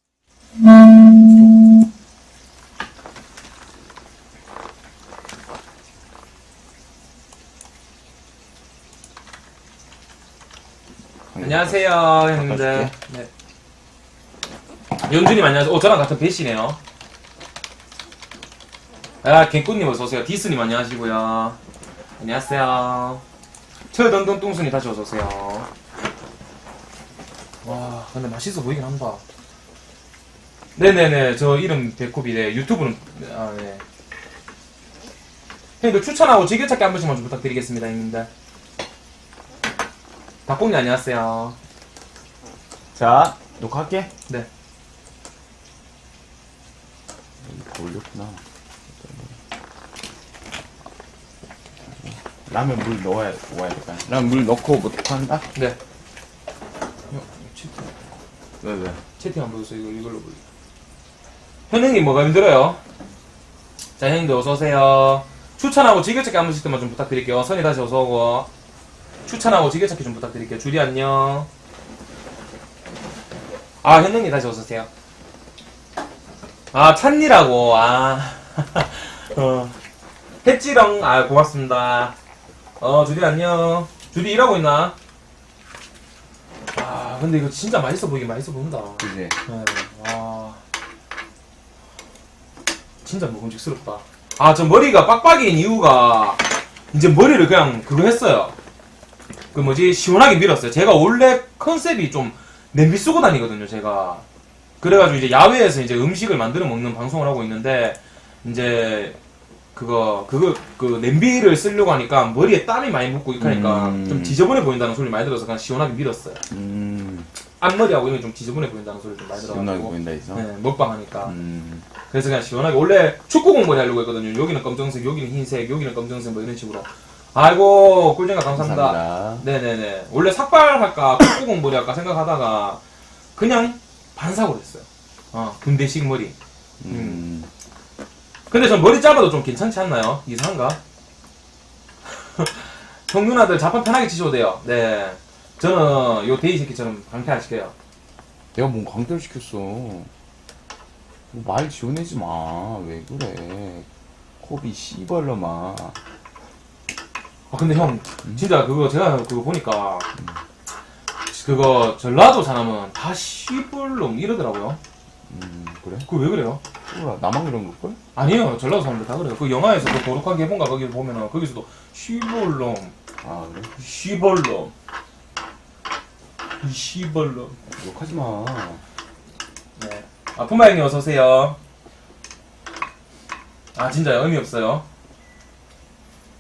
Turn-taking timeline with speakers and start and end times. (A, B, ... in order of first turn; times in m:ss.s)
0:11.3-0:12.9 A
0:11.4-0:13.3 B
0:15.1-0:16.8 B
0:19.2-0:21.6 B
0:22.2-0:23.2 B
0:23.9-0:25.7 B
0:27.6-0:29.2 B
0:30.8-0:33.8 B
0:35.8-0:38.3 B
0:40.5-0:41.6 B
0:43.0-0:44.1 A
0:47.4-0:48.4 A
0:49.0-0:49.3 A
0:52.5-0:55.5 A
0:57.1-0:57.8 B
0:58.6-0:59.0 A
0:59.2-1:00.4 B
1:01.7-1:02.8 B
1:04.0-1:08.5 B
1:09.3-1:11.5 B
1:13.8-1:14.9 B
1:16.7-1:19.7 B
1:20.4-1:22.1 B
1:22.8-1:24.9 B
1:26.8-1:30.6 B
1:29.0-1:29.3 A
1:33.0-1:38.5 B
1:39.5-1:44.2 B
1:44.8-1:49.2 B
1:49.8-1:56.4 B
1:53.4-1:54.4 A
1:56.5-1:57.3 A
1:57.6-2:01.4 B
1:59.4-2:00.4 A
2:01.2-2:01.9 A
2:02.1-2:12.8 B
2:08.5-2:09.4 A
2:13.4-2:16.3 B
2:16.8-2:17.5 A
2:16.9-2:17.2 B
2:18.5-2:20.8 B
2:22.2-2:27.7 B
2:28.6-2:30.1 A
2:31.3-2:33.9 A
2:34.4-2:36.0 A
2:37.5-2:40.1 B
2:41.3-2:44.8 B
2:45.3-2:46.1 A
2:46.1-2:46.6 B
2:46.9-2:48.0 A
2:48.2-2:52.9 B
2:53.2-2:53.7 A
2:53.8-2:54.7 B
2:56.6-2:57.6 B
2:57.8-2:58.8 A
2:59.8-3:01.6 B
3:03.8-3:04.8 B